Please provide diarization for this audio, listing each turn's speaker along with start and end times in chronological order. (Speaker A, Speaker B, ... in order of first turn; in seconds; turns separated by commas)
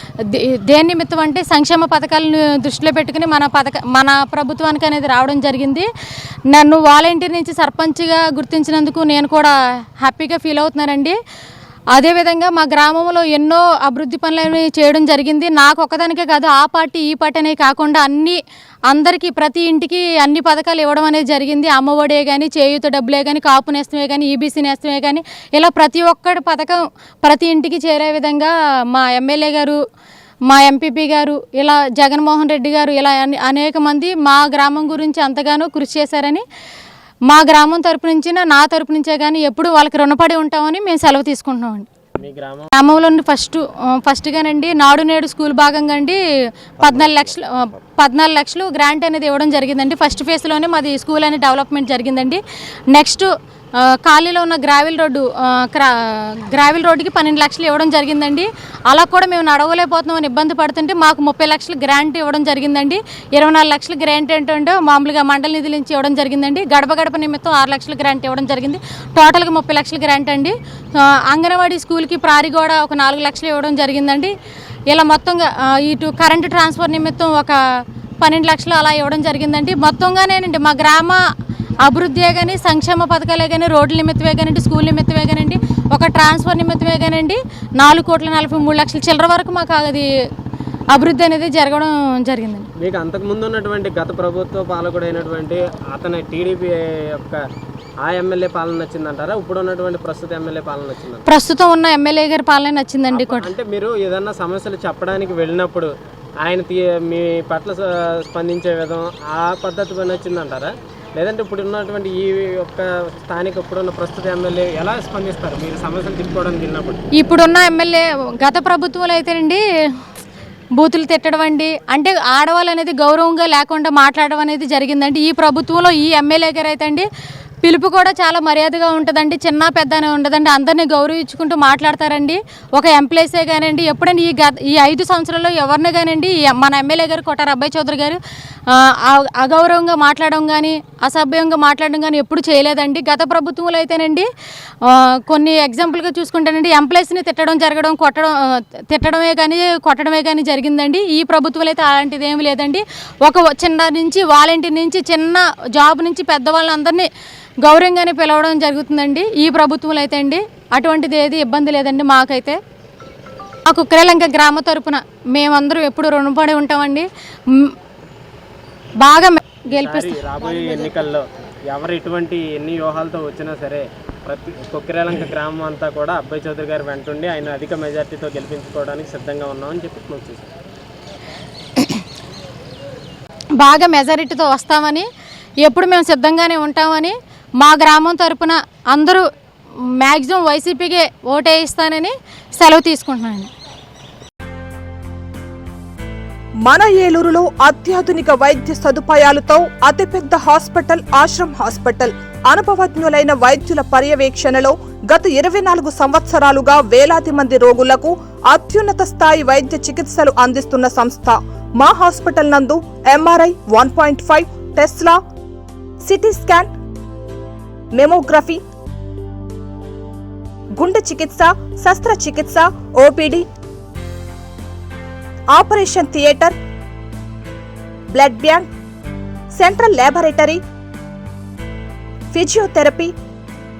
Speaker A: 0.3-5.9, Speaker A: 6.5-11.2, Speaker A: 11.9-18.4, Speaker A: 18.9-29.8, Speaker A: 30.5-36.4, Speaker A: 37.3-41.9, Speaker B: 42.2-42.7, Speaker A: 42.7-46.2, Speaker A: 46.8-53.3, Speaker A: 53.9-74.3, Speaker A: 74.9-77.6, Speaker A: 78.2-81.2, Speaker A: 81.8-90.0, Speaker A: 90.9-92.7, Speaker B: 92.8-97.4, Speaker B: 98.0-101.2, Speaker A: 101.2-103.5, Speaker B: 103.1-117.0, Speaker A: 117.2-119.6, Speaker A: 120.8-127.1, Speaker A: 127.6-144.3, Speaker A: 144.8-157.1, Speaker A: 157.6-162.6, Speaker A: 163.7-167.7, Speaker A: 169.0-170.2, Speaker B: 169.7-180.5, Speaker C: 170.5-170.9, Speaker A: 183.6-185.1, Speaker A: 185.6-189.2, Speaker A: 190.0-193.5, Speaker C: 196.6-215.2, Speaker C: 216.0-216.7, Speaker C: 217.9-218.6, Speaker C: 220.8-223.5, Speaker C: 225.5-226.6, Speaker C: 228.1-228.7, Speaker C: 229.5-230.6, Speaker C: 232.3-233.1